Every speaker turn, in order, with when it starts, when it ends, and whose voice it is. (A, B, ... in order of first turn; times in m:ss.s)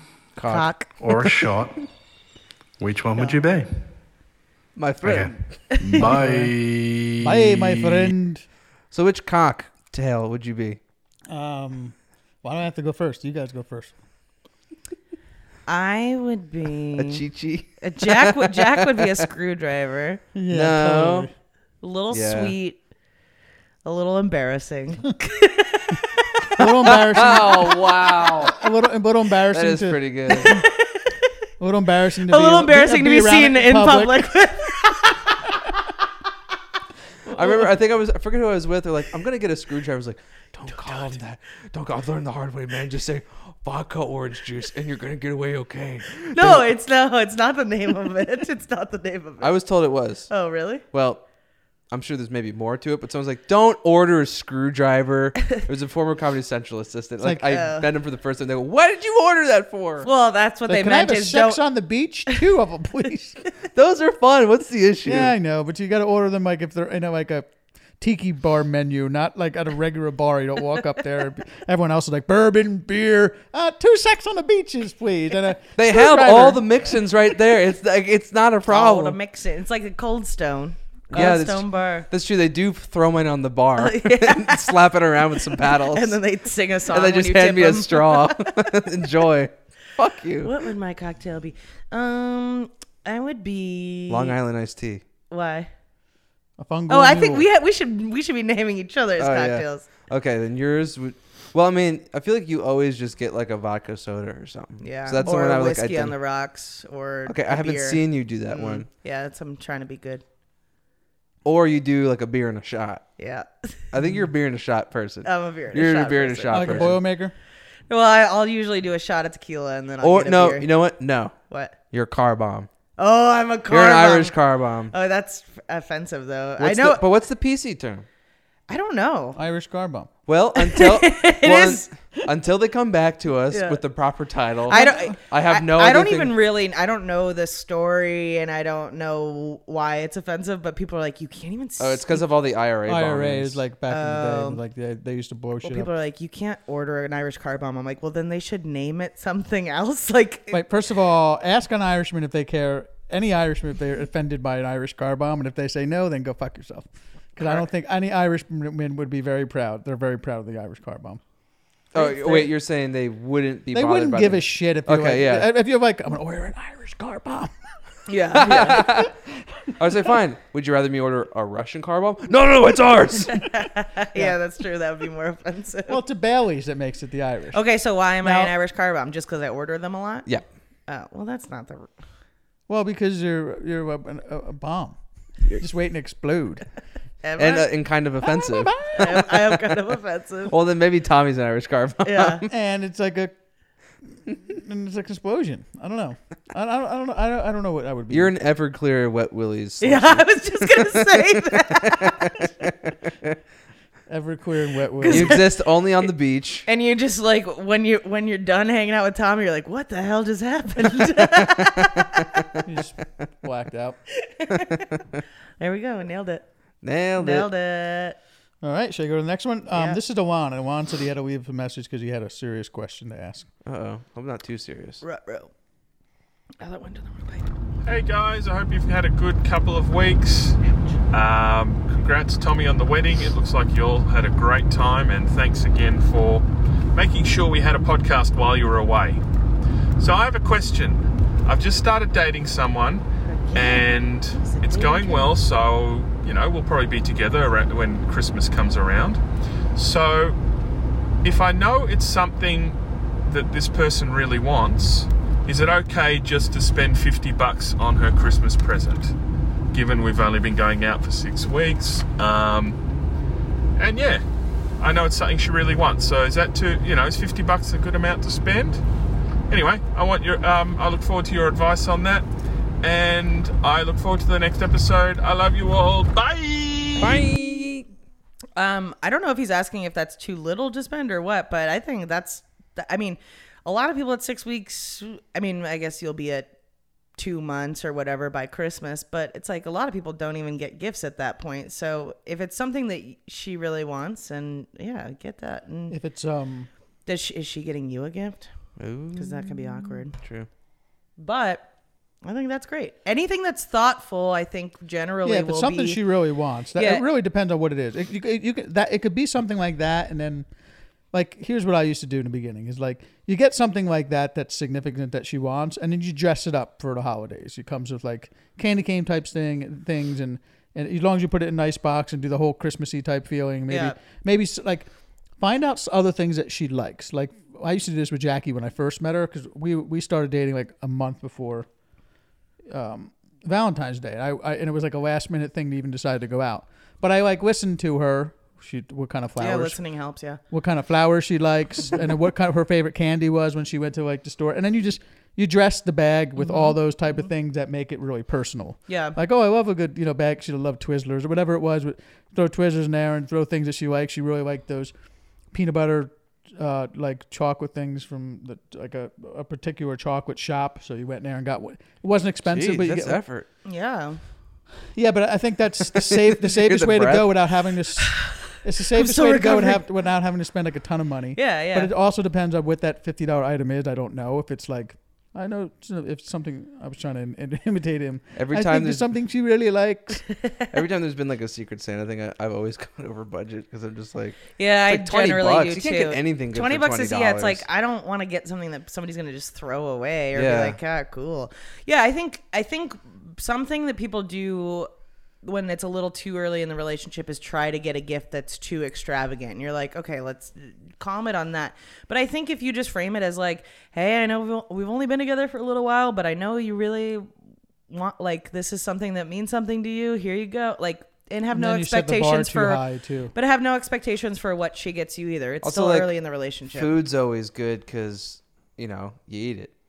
0:00.4-0:01.0 A
0:00.5-0:01.4 B
0:01.0-0:01.8 C
0:02.8-0:03.7 C
0:04.8-0:06.0 A
0:05.0-0:08.1 C
0:06.0-0:06.5 D
0:07.2-0:08.4 D
0:08.9-0:10.8 A
0:11.3-0:13.9 D
0:15.7-0:17.2 B
0:17.0-0:19.0 A
0:17.8-0:20.2 B
0:20.3-0:21.3 D
0:20.5-0:21.3 A
0:21.8-0:22.8 B
0:22.1-0:22.5 A
0:23.8-0:26.4 B
0:26.6-0:30.6 D
0:26.6-0:28.6 A
0:29.5-0:30.6 A
0:30.3-0:31.1 B
0:31.6-0:34.2 D
0:32.3-0:35.4 B
0:37.3-0:37.6 B
0:37.3-0:46.7 A
0:46.3-0:49.6 B
0:49.4-0:50.3 A
0:50.3-0:50.8 B
0:50.9-0:51.2 A
0:51.9-1:00.1 A
0:57.2-0:57.6 D
0:57.5-0:57.9 B
1:00.0-1:01.6 B
1:00.7-1:03.4 D
1:03.7-1:05.3 A
1:05.0-1:16.6 D
1:15.8-1:19.2 A
1:18.7-1:22.1 B
1:21.1-1:26.2 A
1:23.8-1:24.8 B
1:25.4-1:28.5 B
1:26.9-1:30.5 A
1:30.4-1:34.4 B
1:34.1-1:35.0 A
1:35.3-1:35.7 B
1:36.6-1:37.4 D
1:36.9-1:39.8 B
1:39.2-1:46.1 A
1:44.8-1:50.2 B
1:47.3-1:48.9 A
1:51.4-1:53.0 A
1:53.2-1:53.8 B
1:53.9-1:57.0 A
1:55.2-1:56.9 B
1:56.5-1:57.3 D
1:57.9-2:00.7 B
2:00.0-2:01.4 A
2:01.9-2:02.7 A
2:03.0-2:04.4 B
2:03.7-2:04.9 A
2:04.9-2:07.0 B
2:06.6-2:08.0 A
2:08.7-2:09.4 B
2:09.4-2:10.1 D
2:10.3-2:16.3 A
2:10.6-2:11.9 B
2:13.5-2:13.8 B
2:14.7-2:22.2 B
2:14.7-2:15.1 D
2:21.8-2:23.6 A
2:22.8-2:25.9 D
2:23.9-2:24.6 B
2:25.6-2:30.6 B
2:30.5-2:41.2 D
2:41.9-2:45.5 A
2:41.9-2:42.5 B
2:43.7-2:47.5 D
2:48.1-2:48.9 B
2:48.4-2:49.1 A
2:49.8-2:53.5 A
2:53.3-2:56.0 B
2:55.9-2:57.6 D
2:57.5-3:00.3 B
2:58.2-2:58.5 D
3:00.9-3:01.9 B
3:02.7-3:05.0 D
3:05.6-3:06.6 D
3:07.2-3:07.7 B
3:07.4-3:09.6 A
3:08.4-3:09.1 D
3:08.9-3:10.5 B
3:10.5-3:12.5 A
3:12.0-3:12.4 B
3:12.5-3:13.3 D
3:14.2-3:18.3 D
3:18.1-3:22.7 A
3:19.8-3:22.5 B
3:24.1-3:25.4 D
3:25.0-3:25.5 B
3:25.1-3:26.6 A
3:26.6-3:32.0 B
3:32.6-3:34.0 D
3:34.2-3:35.0 B
3:35.6-3:36.4 B
3:36.8-3:37.5 A
3:37.2-3:38.2 B
3:38.6-3:43.5 D
3:39.7-3:40.0 B
3:43.6-3:45.0 A
3:45.0-3:45.5 B
3:46.6-3:47.5 B
3:47.8-3:50.6 E
3:51.1-3:59.2 E
4:00.0-4:09.2 E
4:03.2-4:05.4 B
4:09.7-4:10.4 E
4:11.2-4:19.1 E
4:19.7-4:22.8 E
4:23.8-4:24.2 E
4:24.8-4:28.8 E
4:29.5-4:32.2 E
4:32.8-4:37.3 E
4:37.0-4:37.8 A
4:38.6-4:46.5 B
4:47.2-4:56.0 B
4:55.9-4:56.7 D
4:57.0-4:58.5 B
4:58.8-5:00.5 A
4:59.1-5:00.2 B
5:01.2-5:01.6 B
5:02.2-5:06.0 B
5:05.2-5:10.5 D
5:06.7-5:07.0 B
5:11.1-5:31.7 D
5:23.7-5:24.0 B
5:32.7-5:39.8 D
5:39.4-5:40.4 B
5:40.5-5:54.9 D
5:48.9-5:49.2 B
5:55.5-6:03.2 D
6:02.4-6:03.5 A
6:03.6-6:04.2 B
6:04.9-6:20.2 D
6:06.1-6:07.3 A
6:08.9-6:09.8 B
6:11.4-6:11.9 B
6:18.4-6:19.1 A
6:20.7-6:27.6 A
6:24.6-6:34.9 B
6:30.3-6:30.8 A
6:35.4-6:47.3 B
6:47.9-6:52.8 B
6:51.5-6:53.3 D
6:53.3-6:56.9 B
6:55.6-6:56.1 A
6:56.7-6:59.7 A